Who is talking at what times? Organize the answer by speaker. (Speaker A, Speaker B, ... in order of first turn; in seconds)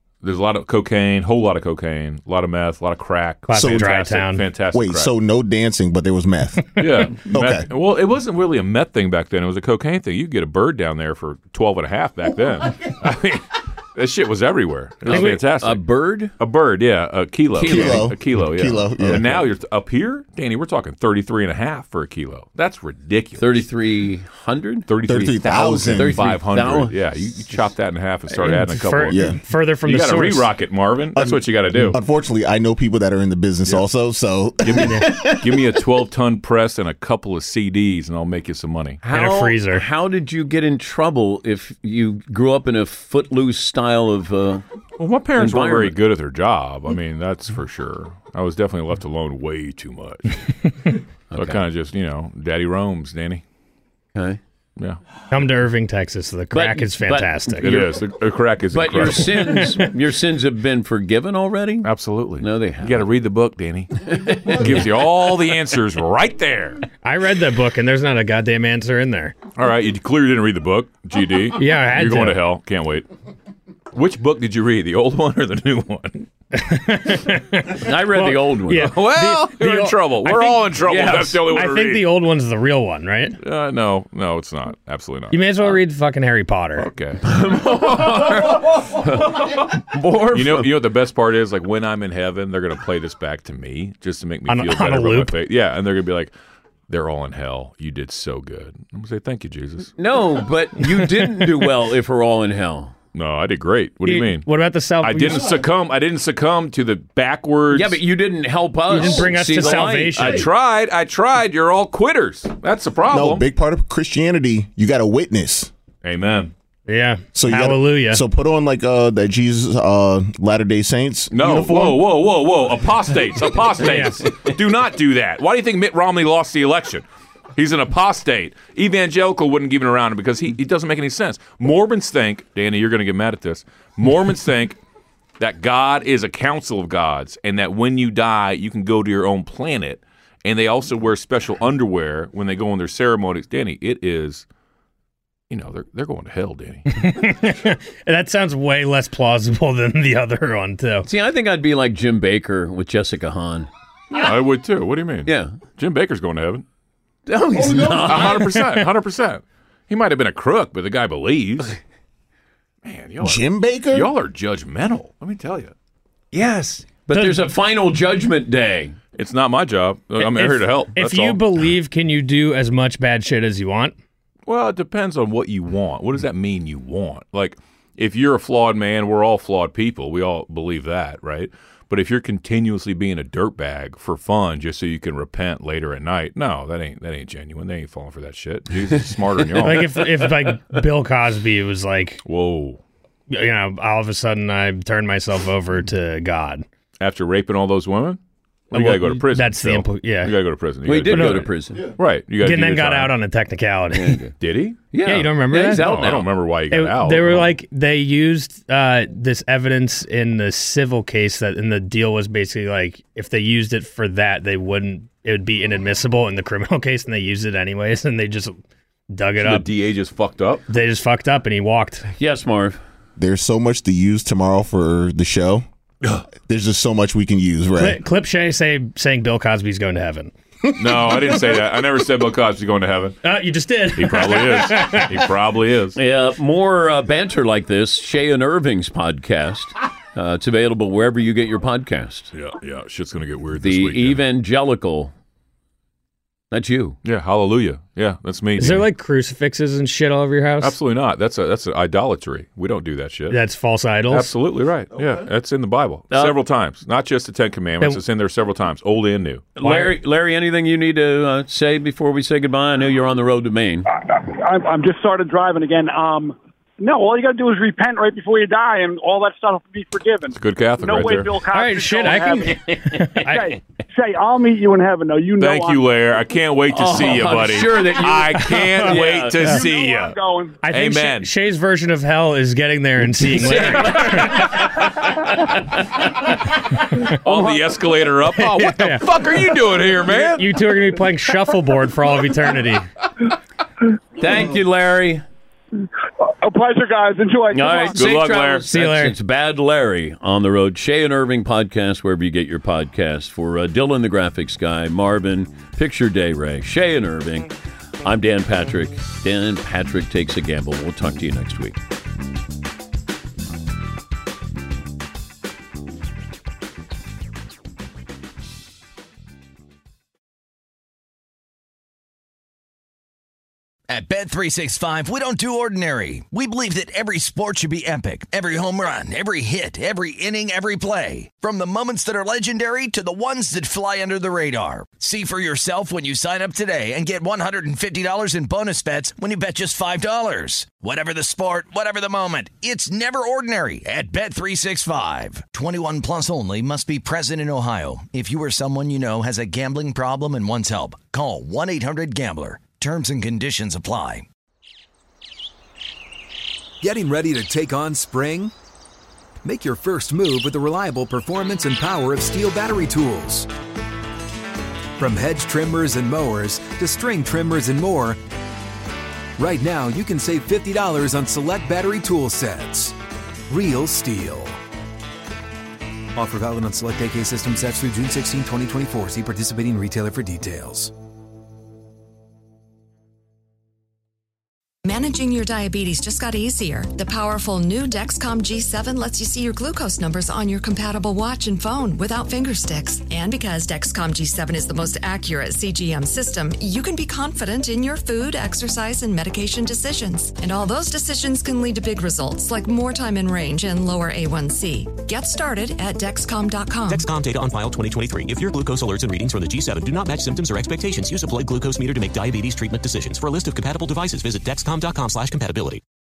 Speaker A: 0.2-5.1, 6.8-15.8, 16.4-23.7, 24.9-29.2, 29.8-32.0, 34.6-39.0, 45.0-50.5, 51.3-53.4, 57.6-59.6, 61.8-66.8, 69.5-73.1, 73.9-76.2, 78.7-82.1, 83.4-85.8, 86.8-89.6, 90.3-96.3, 96.9-99.9, 103.1-104.5, 105.0-108.0, 109.5-113.5, 116.0-116.5, 121.3-134.8, 135.4-144.4, 145.5-146.9, 154.1-156.6, 157.8-161.8, 162.8-165.7, 169.1-171.4, 174.5-190.2, 192.2-192.8, 197.0-198.2, 198.7-203.1, 204.4-204.8, 205.8-207.5, 219.4-220.6, 230.8-233.2, 233.9-236.0, 242.3-244.2, 247.0-248.9, 250.6-253.4, 254.1-259.5, 270.3-271.3, 275.4-280.2, 280.7-281.3, 287.1-290.5, 297.9-298.7
Speaker B: 3.5-4.4, 15.1-15.4, 28.3-30.5, 34.8-35.1, 39.1-39.8, 55.3-57.9, 59.4-59.9, 67.0-69.3, 71.5-72.4, 76.5-83.4, 85.3-86.9, 94.5-95.3, 104.0-105.6, 108.9-110.5, 116.9-118.2, 123.8-124.2, 146.9-151.1, 167.1-167.5, 170.3-173.9, 189.6-192.2, 193.3-196.6, 198.7-200.3, 201.1-201.5, 202.4-204.2, 205.0-219.7, 220.7-222.0, 227.8-230.3, 233.2-235.2, 248.6-250.7, 253.3-254.3, 259.6-259.9, 271.5-273.5, 278.4-279.6, 280.6-285.6, 286.8-287.5, 288.4-289.1, 290.1-292.9, 298.7-299.1
Speaker C: 3.5-3.9, 4.7-7.7, 17.6-19.4, 25.0-26.2, 29.1-29.4, 31.1-35.6, 113.1-115.7, 117.3-122.1, 163.2-164.1, 223.2-225.6, 226.4-228.0
Speaker D: 15.1-16.3, 17.6-18.1, 23.4-24.9, 25.4-27.3, 39.0-44.6, 45.4-46.0, 51.3-51.6, 54.1-54.4, 56.5-57.6, 58.7-63.0, 64.0-64.9, 77.8-78.9, 80.9-81.3, 87.2-90.7, 100.0-102.9, 107.7-110.5, 151.0-153.7, 155.2-155.6, 157.3-158.6, 166.3-169.0, 200.8-201.9, 203.9-204.3, 204.9-206.2, 222.2-222.8, 235.9-242.3, 243.6-245.1, 246.5-247.0, 259.6-263.9, 272.4-273.3, 276.7-279.5, 283.0-285.9, 294.2-295.2, 297.5-307.5, 308.0-311.8
Speaker E: 263.9-272.6, 273.2-275.8, 279.4-280.6, 296.2-298.0
Speaker F: 323.9-354.2
Speaker G: 356.8-358.5, 359.4-363.5, 365.0-368.2, 369.4-372.9, 373.5-374.6, 376.1-380.9
Speaker H: 384.8-407.0
Speaker I: 406.9-415.8